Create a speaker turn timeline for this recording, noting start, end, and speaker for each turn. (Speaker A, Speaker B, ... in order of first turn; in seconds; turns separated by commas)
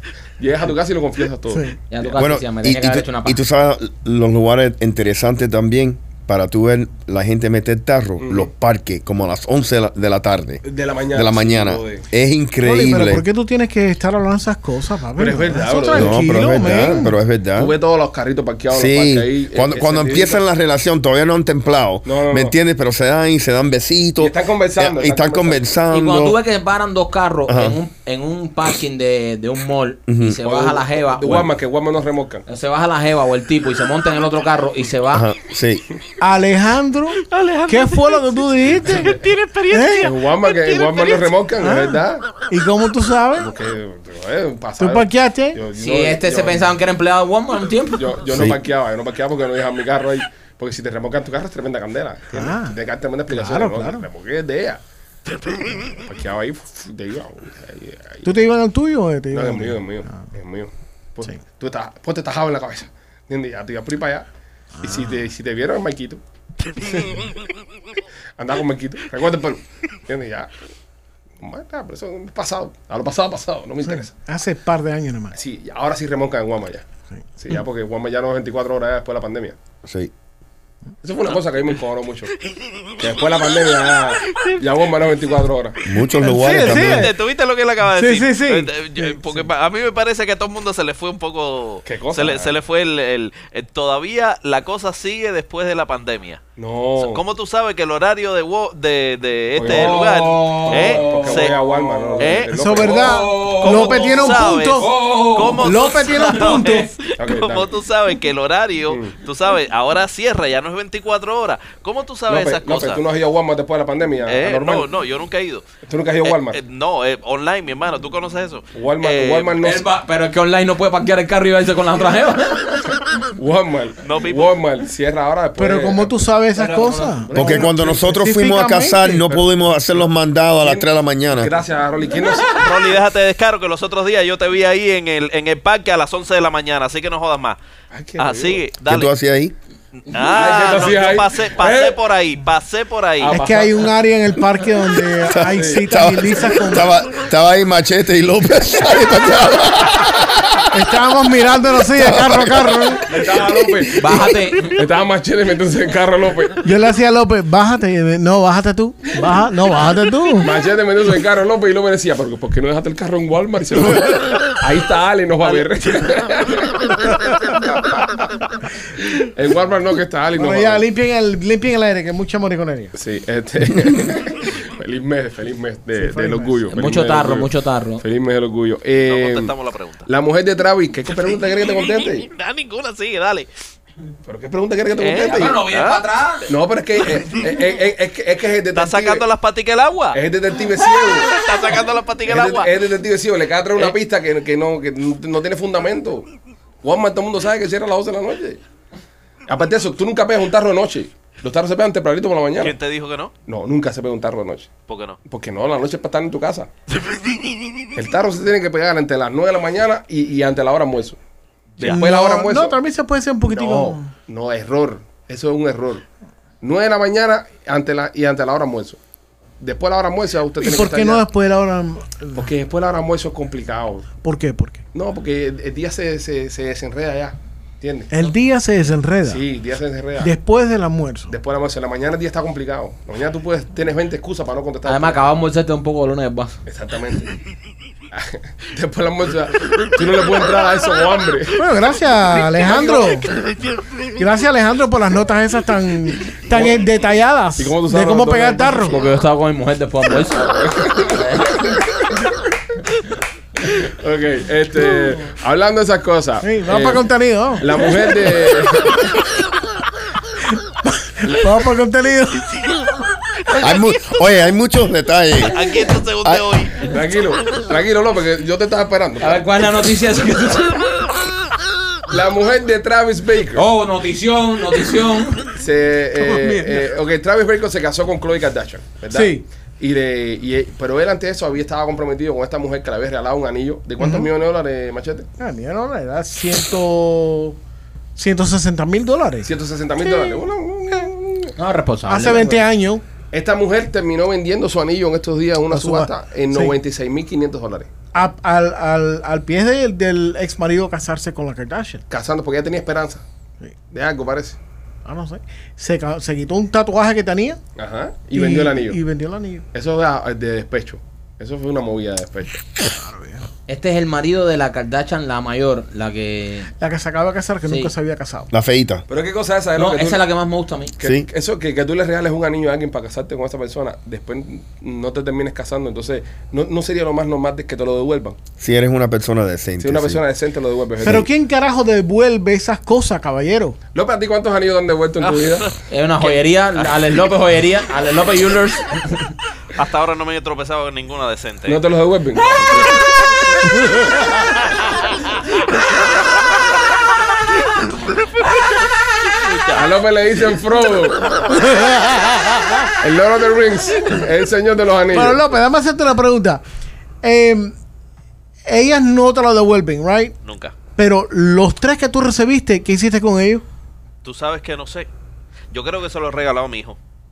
Speaker A: 0.4-1.7, Speaker B: 1.9-3.4, Speaker C: 2.1-10.6, Speaker A: 8.2-8.5, Speaker A: 10.6-12.1, Speaker C: 11.1-13.2, Speaker D: 12.6-17.1, Speaker A: 15.1-20.4, Speaker C: 15.9-17.7, Speaker C: 18.7-26.4, Speaker A: 22.0-22.5, Speaker A: 24.2-25.6, Speaker B: 25.9-31.5, Speaker C: 27.5-27.8, Speaker C: 30.1-30.4, Speaker A: 30.4-32.4, Speaker B: 32.5-35.3, Speaker C: 35.1-35.8, Speaker D: 36.2-39.2, Speaker E: 37.2-41.3, Speaker A: 38.9-39.2, Speaker D: 39.7-40.1, Speaker A: 40.0-42.3, Speaker D: 41.6-43.5, Speaker A: 43.4-46.7, Speaker D: 44.8-45.6, Speaker B: 45.7-48.2, Speaker A: 47.9-54.8, Speaker C: 48.3-48.6, Speaker D: 52.3-52.8, Speaker D: 53.3-54.0, Speaker A: 55.9-58.3, Speaker D: 58.2-60.2, Speaker A: 59.3-64.3, Speaker A: 64.8-66.2, Speaker D: 64.8-65.1, Speaker A: 68.4-70.5, Speaker A: 71.4-74.1, Speaker D: 74.2-75.3, Speaker A: 75.3-76.8, Speaker A: 77.4-79.6, Speaker C: 79.8-80.1, Speaker A: 81.0-82.3, Speaker A: 83.0-85.8, Speaker E: 84.3-84.5, Speaker C: 85.8-87.1, Speaker D: 86.2-87.1, Speaker E: 86.4-96.4, Speaker D: 87.9-89.4, Speaker A: 91.8-92.5, Speaker A: 96.6-97.2, Speaker E: 97.0-101.6, Speaker A: 99.5-104.1, Speaker B: 100.3-101.1, Speaker E: 102.2-113.0, Speaker D: 102.5-104.9, Speaker A: 104.8-105.3, Speaker D: 105.6-106.9, Speaker A: 107.2-107.7, Speaker A: 108.9-109.2, Speaker A: 112.3-114.9, Speaker E: 114.2-115.7, Speaker A: 115.8-116.6, Speaker E: 116.2-119.5, Speaker A: 118.7-119.8, Speaker B: 119.6-122.8, Speaker A: 123.3-126.2, Speaker E: 124.0-124.6, Speaker D: 125.6-129.2, Speaker B: 126.5-127.7, Speaker A: 127.3-127.8, Speaker C: 127.3-131.5, Speaker A: 130.6-132.9, Speaker E: 132.5-137.6, Speaker A: 137.9-138.6, Speaker E: 138.2-139.1, Speaker C: 138.9-139.5, Speaker E: 140.0-143.4, Speaker A: 140.2-142.0, Speaker A: 143.2-143.9, Speaker D: 143.2-146.9, Speaker C: 145.3-150.6, Speaker A: 145.4-145.8, Speaker D: 150.7-153.2, Speaker C: 151.9-153.0, Speaker A: 153.1-156.6, Speaker B: 153.9-154.8, Speaker D: 156.6-160.5, Speaker A: 160.4-166.9, Speaker A: 167.8-168.2, Speaker A: 169.2-170.8, Speaker D: 170.3-172.9, Speaker A: 172.9-179.5, Speaker D: 176.0-176.7, Speaker B: 176.7-178.0, Speaker E: 179.1-180.1, Speaker A: 180.1-182.3, Speaker E: 182.2-183.5, Speaker A: 184.2-185.6, Speaker E: 185.0-186.0, Speaker B: 185.2-186.5, Speaker A: 186.5-189.2, Speaker E: 188.7-190.2, Speaker A: 190.1-191.4, Speaker E: 191.1-192.7, Speaker A: 192.3-196.3, Speaker A: 196.8-198.6, Speaker A: 199.5-202.7, Speaker E: 202.6-203.3, Speaker A: 203.5-204.7, Speaker E: 204.9-205.2, Speaker A: 205.2-206.7, Speaker A: 207.9-211.2, Speaker A: 211.8-212.8, Speaker D: 211.8-214.1, Speaker A: 213.5-216.0, Speaker A: 216.6-219.0, Speaker A: 219.6-221.2, Speaker D: 220.6-222.5, Speaker A: 222.3-224.1, Speaker D: 224.2-224.8, Speaker A: 224.9-228.1, Speaker D: 228.1-229.4, Speaker A: 229.2-230.3, Speaker D: 230.2-231.3, Speaker A: 231.3-235.3, Speaker B: 234.8-236.6, Speaker A: 236.7-237.3, Speaker A: 238.1-241.6, Speaker D: 241.6-243.3, Speaker A: 242.6-243.2, Speaker D: 244.2-248.9, Speaker A: 246.5-246.8, Speaker A: 247.6-249.0, Speaker B: 248.9-251.8, Speaker A: 250.2-251.3, Speaker A: 253.7-257.1, Speaker D: 256.4-257.9, Speaker A: 257.6-259.0, Speaker D: 260.8-262.6, Speaker A: 261.2-261.5, Speaker C: 263.6-265.6, Speaker E: 265.5-266.9, Speaker A: 266.8-269.4, Speaker B: 269.2-270.9, Speaker A: 272.1-273.6, Speaker B: 273.5-275.5, Speaker A: 275.5-285.3, Speaker D: 276.3-276.8, Speaker D: 279.1-279.4, Speaker D: 284.0-284.3, Speaker D: 285.4-287.6, Speaker D: 288.1-289.5, Speaker A: 289.4-291.6, Speaker B: 291.6-292.6, Speaker D: 292.1-293.0, Speaker A: 293.3-297.9, Speaker D: 295.7-296.7, Speaker D: 298.1-302.0, Speaker A: 302.1-303.2, Speaker A: 303.9-304.6, Speaker D: 305.0-307.6, Speaker A: 307.8-309.0, Speaker D: 308.3-309.6, Speaker A: 309.7-312.6, Speaker D: 312.9-313.4, Speaker B: 313.7-316.7, Speaker D: 316.8-318.5, Speaker B: 317.7-317.9, Speaker C: 318.5-319.0, Speaker A: 319.1-320.2, Speaker B: 319.8-320.9, Speaker A: 321.0-328.4, Speaker C: 328.6-330.2, Speaker A: 329.8-331.3, Speaker D: 331.0-333.8, Speaker C: 331.0-331.3, Speaker A: 333.9-335.7, Speaker B: 335.9-339.3, Speaker E: 336.2-337.0, Speaker E: 339.7-341.8, Speaker A: 341.6-342.9, Speaker E: 349.4-349.8, Speaker A: 349.7-351.3, Speaker A: 353.0-355.4, Speaker D: 355.1-356.6, Speaker D: 357.2-357.7, Speaker D: 358.6-360.4, Speaker E: 360.4-360.7, Speaker D: 360.9-363.6, Speaker E: 364.2-365.1, Speaker E: 365.7-367.0